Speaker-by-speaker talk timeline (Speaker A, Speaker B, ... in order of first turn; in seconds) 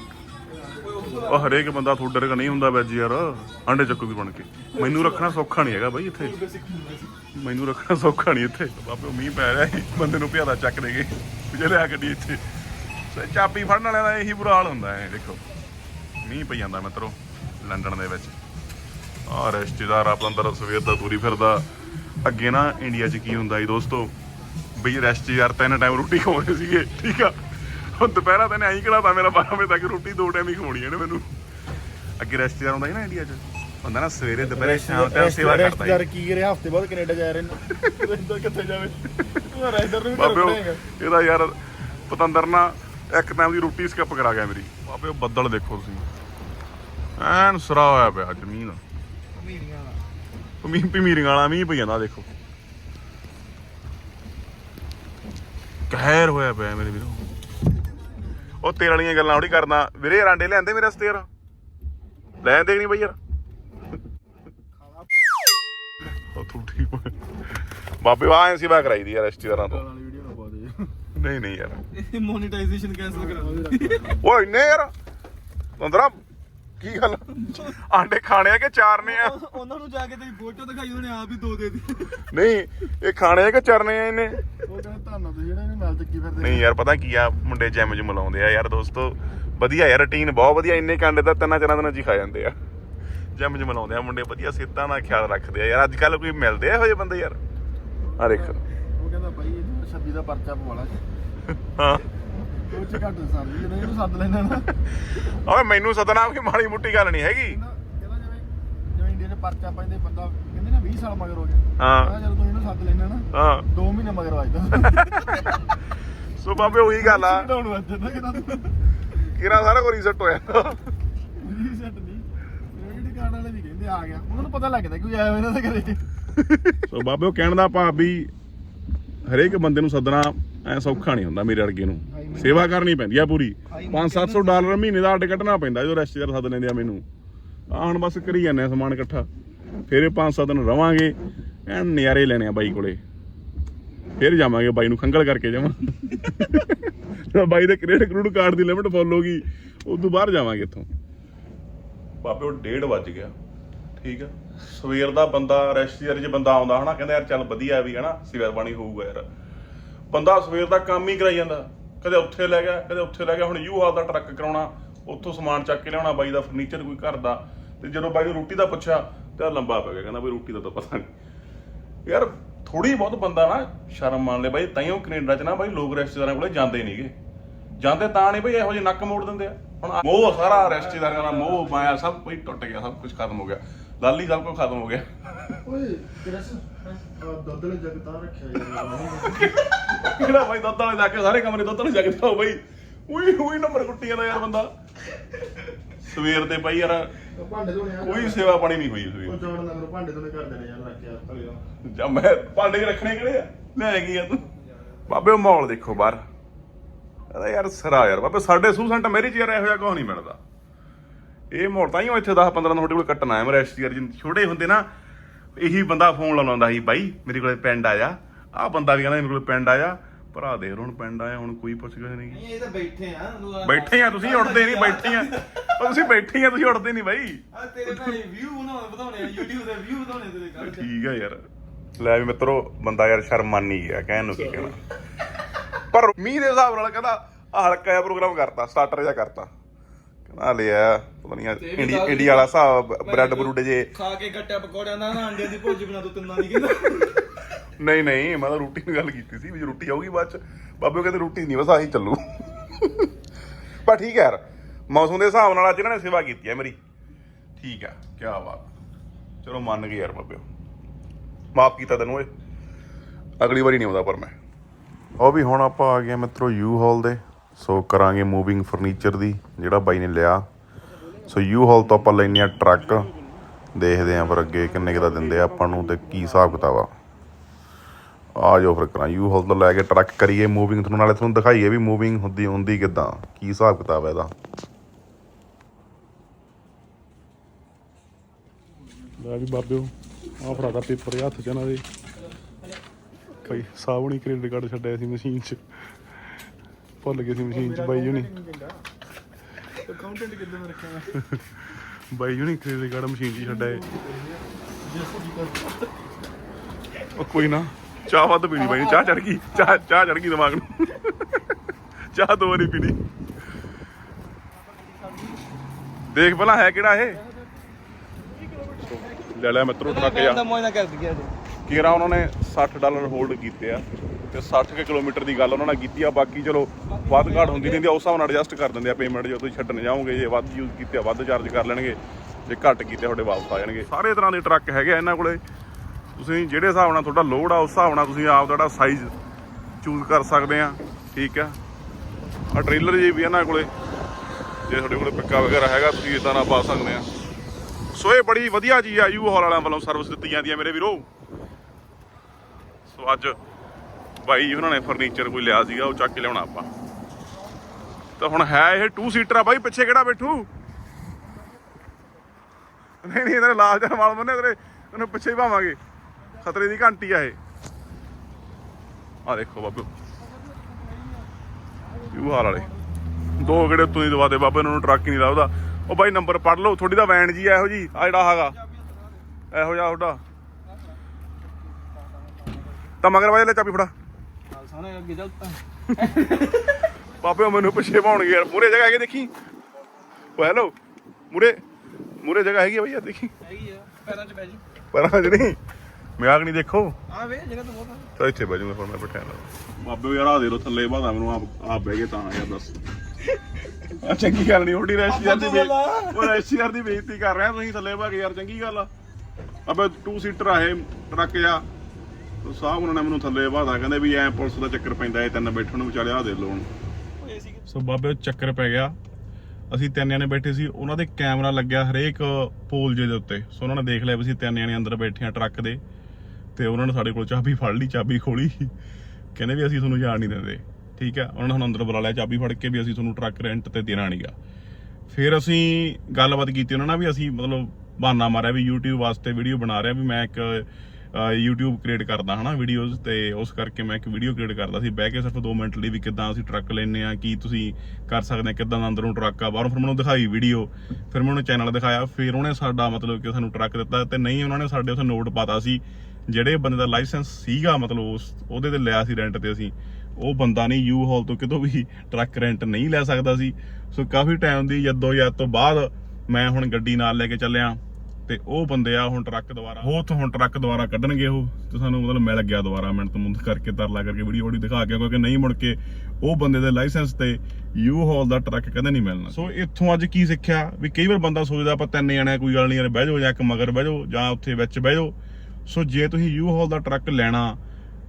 Speaker A: 0.6-1.3, 34.4-38.9, 39.5-40.8, 69.5-70.9, 73.2-74.2, 84.6-86.7, 98.1-101.0, 102.5-104.7, 107.5-115.4, 116.5-118.7, 121.4-126.0, 132.1-132.7, 185.6-189.5, 197.3-198.6, 199.2-201.6, 297.3-298.8, 299.8-301.1, 303.4-305.9, 318.5-319.1
Speaker B: 0.6-1.7, 4.7-5.5, 6.0-7.1, 49.3-50.0, 71.9-74.2, 79.0-82.2, 133.7-134.7, 180.1-182.0, 222.3-226.1, 227.5-230.9, 241.6-247.4, 319.8-321.4, 326.9-327.9, 378.4-379.2, 381.9-382.7, 384.5-386.8, 393.4-394.6, 397.1-398.1, 405.1-406.4, 417.2-417.6
Speaker C: 1.3-6.4, 7.3-12.4, 13.1-15.4, 16.2-18.4, 19.3-21.7, 22.2-24.1, 24.8-31.3, 32.2-36.0, 37.7-46.1, 47.2-48.8, 50.6-52.3, 55.9-57.2, 58.6-61.3, 62.4-63.2, 66.3-69.8, 71.2-71.8, 74.2-74.9, 75.8-76.2, 76.8-79.5, 82.2-84.4, 86.4-92.6, 93.3-97.4, 98.2-98.6, 101.5-102.1, 104.9-107.6, 111.8-112.2, 113.3-113.7, 114.8-115.7, 116.4-117.5, 119.2-120.8, 126.7-128.3, 129.2-137.0, 137.7-139.3, 139.9-141.2, 141.7-143.0, 144.2-150.9, 152.2-153.3, 154.0-159.3, 160.1-171.1, 172.1-177.1, 177.8-185.2, 189.1-194.7, 195.9-197.1, 198.0-199.4, 201.8-204.5, 205.1-206.2, 207.3-210.4, 211.5-214.9, 215.6-222.4, 223.6-228.1, 230.6-231.4, 232.0-234.8, 235.8-239.5, 240.3-243.9, 247.8-253.1, 253.8-256.8, 257.6-258.7, 259.4-260.5, 261.6-262.3, 263.4-264.4, 265.2-270.5, 271.2-273.1, 273.8-276.9, 278.4-284.3, 289.2-291.8, 293.4-295.6, 297.0-298.3, 301.1-303.8, 307.1-311.6, 312.1-313.0, 316.1-317.2, 318.8-320.4, 321.7-335.4, 336.2-339.1, 339.8-341.6, 342.5-343.7, 344.7-347.1, 347.9-351.1, 352.9-353.4, 354.2-356.7, 358.2-360.5, 363.0-365.8, 366.4-367.4, 369.3-369.9, 372.1-372.7, 373.4-378.6, 379.5-380.2, 383.0-383.9, 385.9-386.6, 387.2-389.3, 390.4-390.8, 391.3-391.6, 392.2-393.3, 394.9-395.6, 396.2-396.9, 398.2-402.8, 403.9-408.9, 409.7-411.6, 412.4-416.7, 417.7-419.0, 419.7-425.8, 426.6-428.7, 429.4-434.4, 435.1-487.6